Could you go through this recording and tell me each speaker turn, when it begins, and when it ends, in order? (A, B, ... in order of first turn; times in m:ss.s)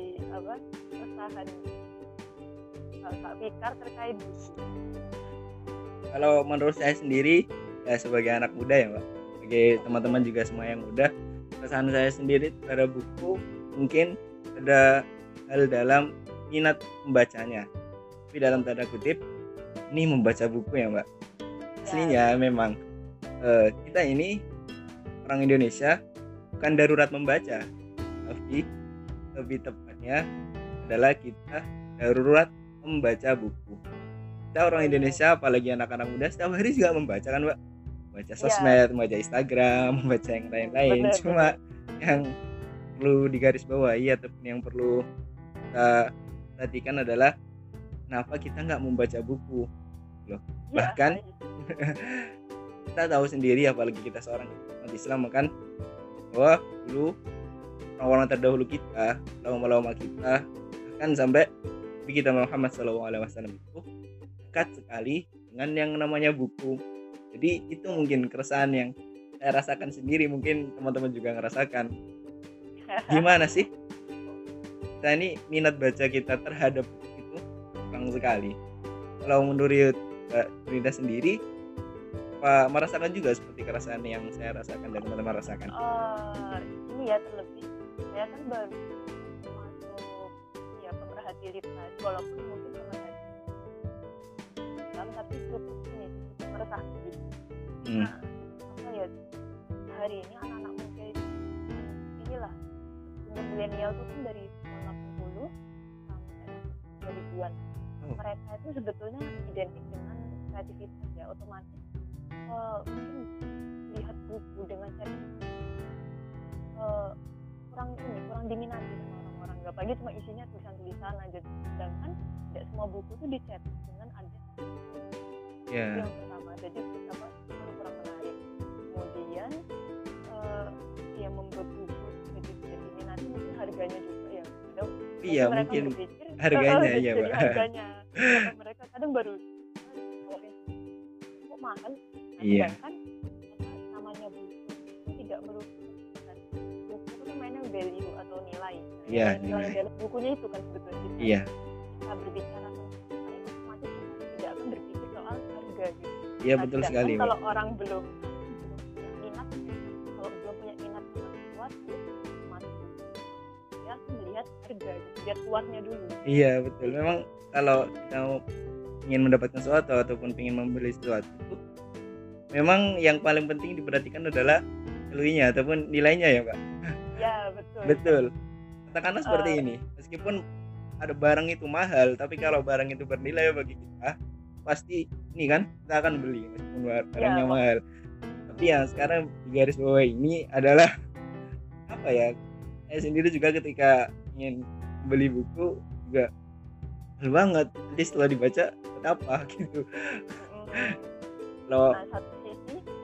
0:00.4-0:01.9 A
0:03.0-0:04.6 A
0:06.1-0:11.1 B
0:09.8-0:10.2 A
0:11.6-0:14.8 B
0:15.5-0:17.6 B
0:18.3-0:19.2 B
0:19.9-0:21.0 B
0:21.8-0:22.3 A
0:21.9-0:22.7 B
0:23.4-0:24.3 B
0:25.2-0:26.0 B
0:26.6-0:27.6 B
0:28.3-0:28.6 B
0:29.4-0:30.2 B
0:30.8-0:33.8 B
0:34.6-0:37.5 B
0:34.7-0:35.2 A
0:38.1-0:41.5 B
0:38.4-0:38.8 A
0:40.5-0:41.6 A
0:43.0-0:45.0 B
0:46.6-0:47.3 B
0:48.1-0:49.6 B
0:50.3-0:51.2 B
0:50.7-0:51.4 A
0:51.9-0:52.3 B
0:53.0-0:55.5 B
0:56.3-0:57.1 B
0:58.0-1:00.3 B
1:00.9-1:01.5 B
1:02.1-1:03.8 B
1:04.5-1:06.7 B
1:07.3-1:11.9 B
1:12.8-1:13.6 A
1:13.1-1:13.6 B
1:15.0-1:18.5 B
1:19.2-1:21.4 B
1:22.4-1:25.7 B
1:25.8-1:30.0 A
1:30.7-1:33.4 A
1:34.9-1:37.2 A
1:37.8-1:38.1 B
1:38.7-1:39.1 A
1:39.9-1:41.1 A
1:41.7-1:42.5 A
1:43.1-1:45.5 A
1:46.1-1:47.6 A
1:48.2-1:51.8 A
1:52.5-1:53.2 A
1:53.9-1:55.6 A
1:56.8-1:57.1 A
1:57.7-2:05.0 A
2:05.7-2:06.1 B
2:05.9-2:08.4 A
2:08.9-2:09.6 A
2:10.3-2:20.8 A
2:15.2-2:17.5 B
2:21.3-2:22.9 A
2:22.4-2:22.8 B
2:23.5-2:31.4 A
2:29.1-2:29.7 B
2:31.9-2:42.0 A
2:36.4-2:37.3 B
2:42.5-2:46.2 A
2:46.3-2:48.4 B
2:46.8-2:47.1 A
2:49.1-2:51.6 B
2:52.5-2:54.6 B
2:55.1-2:56.5 B
2:57.2-2:58.2 A
2:57.9-2:58.3 B
2:58.9-3:00.4 B
2:59.3-2:59.6 A
3:01.0-3:04.1 B
3:04.6-3:07.8 B
3:07.2-3:07.6 A
3:08.5-3:10.9 B
3:08.6-3:09.1 A
3:11.9-3:12.3 B
3:12.9-3:14.6 B
3:15.1-3:16.3 B
3:17.2-3:19.8 B
3:20.4-3:21.0 A
3:21.9-3:22.8 A